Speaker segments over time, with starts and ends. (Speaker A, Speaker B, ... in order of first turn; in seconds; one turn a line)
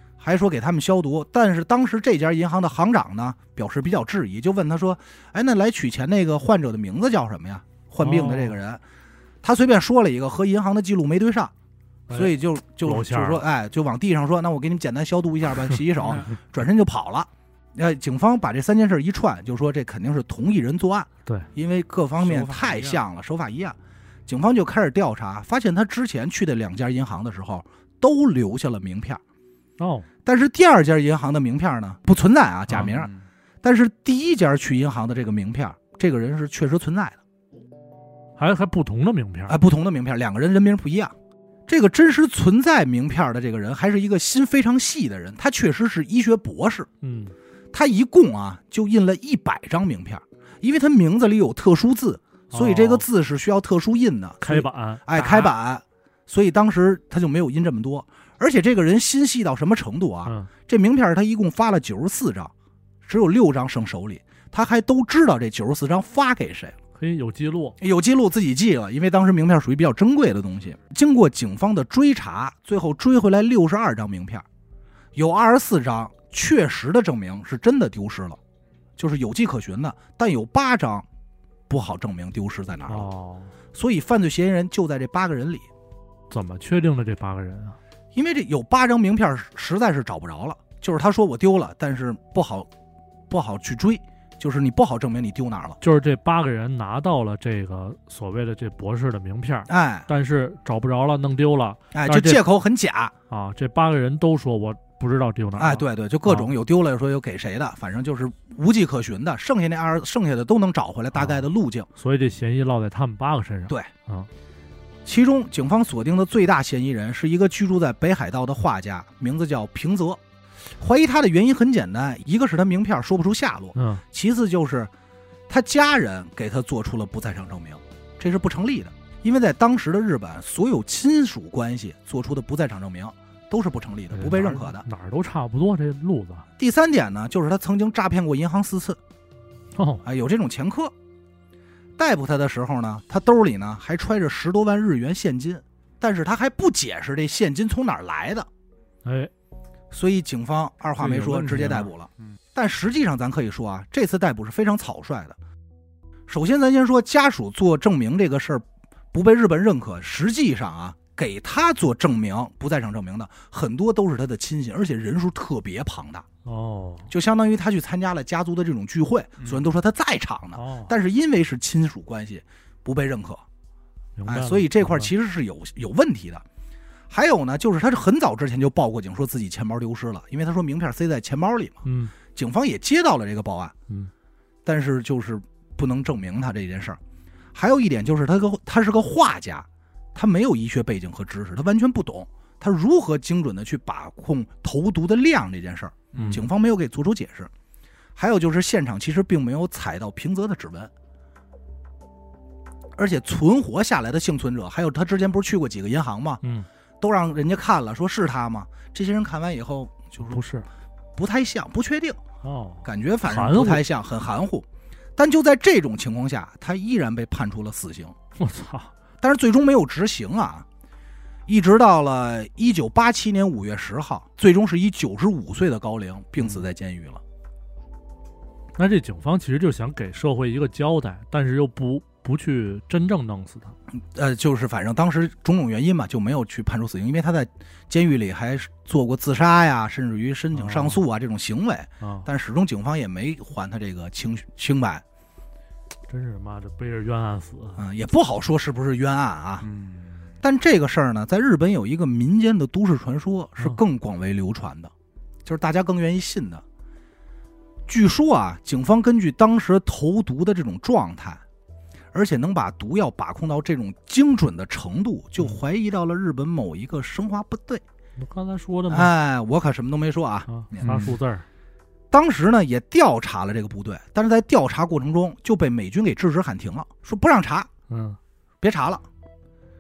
Speaker A: 0.2-8.8
Speaker B: 8.0-8.6
Speaker A: 9.4-11.5
Speaker A: 12.1-23.8
Speaker B: 12.8-13.4
Speaker C: 16.0-16.3
Speaker C: 22.2-23.0
Speaker A: 24.3-29.2
Speaker B: 29.8-30.1
Speaker A: 30.2-33.1
Speaker C: 32.7-33.2
Speaker A: 33.6-37.2
Speaker B: 38.4-39.6
Speaker A: 39.5-41.1
Speaker A: 41.7-46.9
Speaker B: 47.0-47.4
Speaker A: 47.7-62.5
Speaker B: 52.5-53.0
Speaker B: 54.4-55.0
Speaker C: 55.1-55.5
Speaker A: 63.0-66.8
Speaker B: 67.0-67.8
Speaker A: 67.8-74.4
Speaker A: 75.2-78.4
Speaker A: 79.0-81.0
Speaker A: 81.7-83.1
Speaker B: 82.9-83.5
Speaker A: 83.7-85.7
Speaker B: 86.3-87.8
Speaker A: 88.1-92.7
Speaker A: 93.3-95.8
Speaker B: 95.8-102.4
Speaker A: 99.7-100.1
Speaker A: 101.9-103.1
Speaker B: 103.3-106.5
Speaker A: 105.6-111.9
Speaker B: 111.1-111.5
Speaker B: 112.0-114.3
Speaker A: 115.0-120.2
Speaker A: 120.8-124.9
Speaker B: 123.8-124.0
Speaker A: 125.5-134.8
Speaker B: 134.1-136.5
Speaker A: 136.6-139.0
Speaker B: 139.7-140.0
Speaker A: 140.0-140.9
Speaker A: 142.0-148.5
Speaker B: 149.0-149.3
Speaker A: 149.9-155.4
Speaker C: 151.0-152.3
Speaker A: 156.3-166.2
Speaker B: 166.4-167.1
Speaker A: 167.1-173.4
Speaker B: 170.6-170.9
Speaker B: 174.2-175.1
Speaker A: 174.3-176.4
Speaker A: 177.1-183.7
Speaker B: 181.8-182.1
Speaker A: 184.7-187.0
Speaker A: 187.6-197.5
Speaker C: 196.1-196.4
Speaker B: 196.1-196.4
Speaker A: 198.2-200.9
Speaker A: 202.9-206.4
Speaker B: 206.4-206.7
Speaker A: 207.0-210.4
Speaker B: 210.3-210.7
Speaker A: 211.2-212.2
Speaker B: 212.4-213.8
Speaker A: 212.8-218.1
Speaker B: 218.4-218.9
Speaker A: 219.2-220.7
Speaker A: 221.5-227.2
Speaker B: 228.8-233.8
Speaker A: 234.0-245.0
Speaker B: 240.6-241.0
Speaker B: 242.0-242.3
Speaker B: 246.1-247.8
Speaker A: 247.8-249.7
Speaker C: 249.6-250.2
Speaker A: 250.4-254.9
Speaker A: 255.4-256.6
Speaker A: 257.9-261.4
Speaker A: 262.1-267.8
Speaker B: 268.2-269.1
Speaker A: 268.9-271.0
Speaker B: 270.5-271.4
Speaker C: 270.8-271.1
Speaker A: 272.1-277.7
Speaker B: 277.9-278.2
Speaker A: 278.6-279.1